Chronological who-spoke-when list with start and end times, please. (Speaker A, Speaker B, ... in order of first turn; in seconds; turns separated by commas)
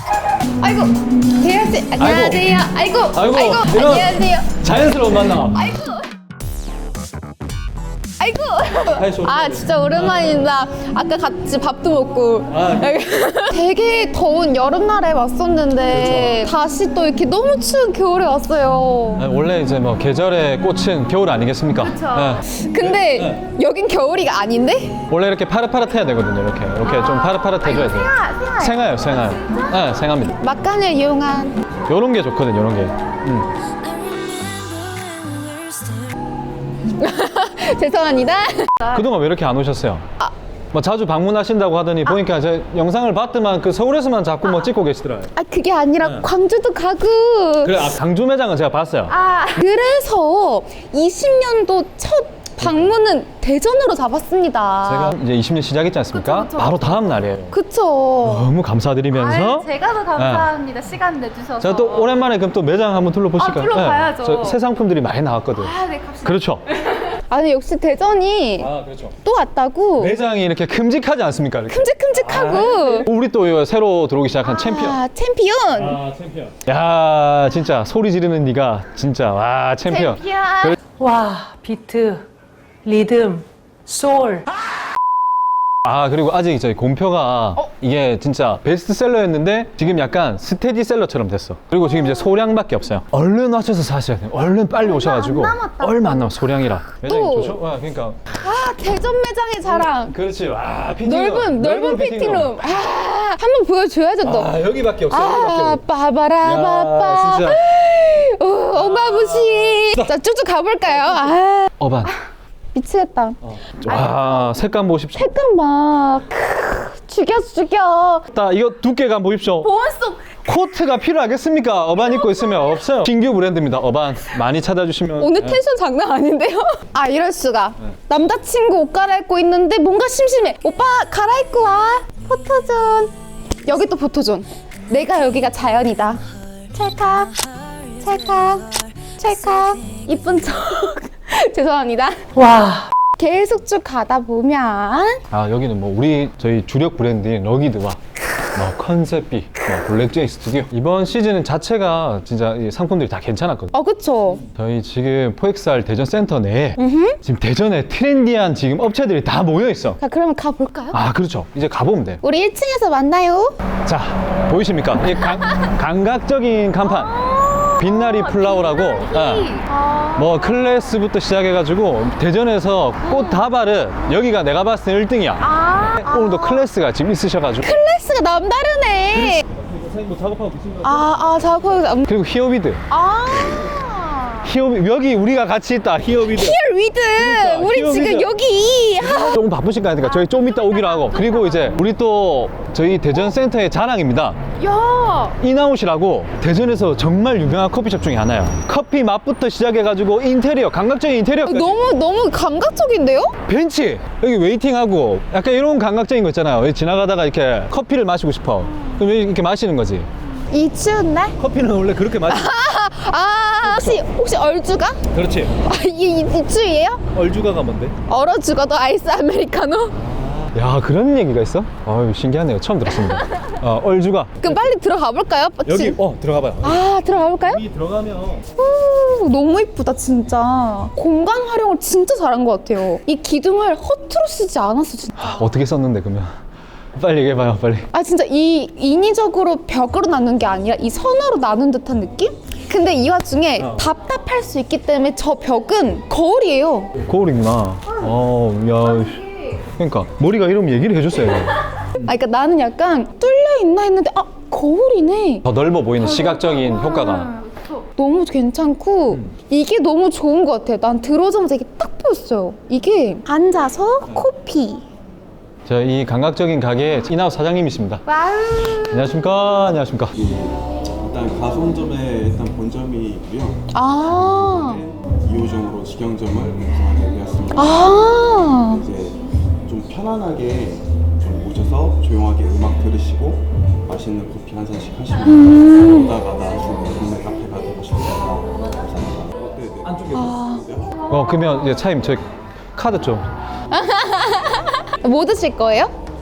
Speaker A: 0.6-4.5, Speaker B: 2.0-2.5, Speaker B: 3.1-5.7, Speaker A: 5.5-6.1, Speaker A: 8.2-19.2, Speaker B: 8.8-10.5, Speaker B: 12.5-12.9, Speaker B: 15.9-16.5, Speaker B: 19.1-23.4, Speaker A: 21.8-25.0, Speaker B: 25.1-30.4, Speaker A: 26.8-29.7, Speaker A: 30.4-31.6, Speaker B: 31.9-33.5, Speaker A: 34.0-36.0, Speaker A: 36.9-39.0, Speaker B: 38.9-40.0, Speaker B: 40.7-45.3, Speaker A: 45.3-47.9, Speaker B: 46.0-46.3, Speaker B: 47.6-49.1, Speaker A: 49.1-55.1, Speaker B: 52.6-52.9, Speaker B: 54.8-57.5, Speaker A: 56.1-58.5, Speaker B: 58.2-60.5, Speaker A: 59.1-62.2, Speaker B: 61.6-66.6, Speaker A: 63.4-64.6, Speaker A: 65.6-68.7, Speaker B: 68.6-69.1, Speaker A: 69.2-70.2, Speaker B: 70.0-75.0, Speaker A: 71.7-73.1, Speaker A: 74.4-76.0, Speaker B: 75.7-80.8, Speaker A: 79.8-80.8, Speaker C: 81.0-82.2, Speaker C: 82.8-84.5, Speaker B: 85.8-98.3, Speaker A: 91.8-92.2, Speaker A: 94.8-97.6, Speaker A: 98.3-100.1, Speaker B: 99.6-103.0, Speaker A: 101.0-112.2, Speaker B: 104.2-105.8, Speaker B: 106.4-107.6, Speaker B: 108.7-110.1, Speaker B: 111.8-112.1, Speaker A: 112.7-114.6, Speaker B: 113.4-115.3, Speaker A: 115.1-118.2, Speaker B: 118.3-119.7, Speaker A: 119.6-120.5, Speaker B: 120.4-125.6, Speaker A: 122.0-122.8, Speaker A: 125.2-133.1, Speaker A: 133.7-137.3, Speaker A: 137.9-142.4, Speaker C: 142.3-142.9, Speaker A: 143.2-145.2, Speaker B: 145.3-148.0, Speaker B: 148.5-153.7, Speaker A: 153.7-154.4, Speaker B: 154.4-160.0, Speaker A: 156.8-157.2, Speaker A: 160.0-161.0, Speaker B: 160.9-162.2, Speaker A: 162.2-163.6, Speaker B: 163.8-167.2, Speaker A: 166.8-170.9, Speaker B: 167.8-169.5, Speaker B: 170.2-177.8, Speaker A: 173.0-173.4, Speaker A: 175.4-176.7, Speaker A: 177.6-179.4, Speaker B: 179.1-181.4, Speaker A: 180.8-182.1, Speaker B: 182.0-182.8, Speaker A: 182.9-184.5, Speaker B: 184.4-186.6, Speaker A: 186.2-189.3, Speaker B: 187.2-188.3, Speaker B: 189.0-194.4, Speaker A: 190.0-191.7, Speaker A: 194.6-195.4, Speaker B: 195.4-201.8, Speaker A: 201.4-203.4, Speaker B: 203.4-210.1, Speaker A: 210.5-211.4, Speaker B: 211.4-212.5, Speaker A: 212.3-215.0, Speaker B: 213.6-214.0, Speaker B: 215.1-215.6, Speaker A: 215.6-217.0, Speaker B: 217.1-217.9, Speaker A: 218.1-219.9, Speaker B: 220.0-224.6, Speaker A: 223.0-223.5, Speaker A: 224.4-226.0, Speaker B: 225.6-226.8, Speaker A: 226.6-227.6, Speaker B: 227.4-228.5, Speaker A: 228.5-235.4, Speaker B: 235.2-236.4, Speaker B: 236.9-237.9, Speaker A: 237.9-246.9, Speaker B: 243.6-243.8, Speaker B: 247.0-251.6, Speaker A: 249.2-249.5, Speaker A: 252.0-255.4, Speaker B: 255.4-257.4, Speaker A: 256.0-264.8, Speaker B: 265.6-268.0, Speaker A: 268.1-269.1, Speaker B: 268.8-270.1, Speaker D: 270.1-273.6, Speaker A: 273.7-274.8, Speaker D: 274.3-278.0, Speaker A: 277.5-278.8, Speaker D: 278.7-290.9, Speaker A: 285.3-286.1, Speaker B: 289.8-290.3, Speaker A: 290.1-290.6, Speaker B: 291.1-293.3, Speaker A: 293.7-295.9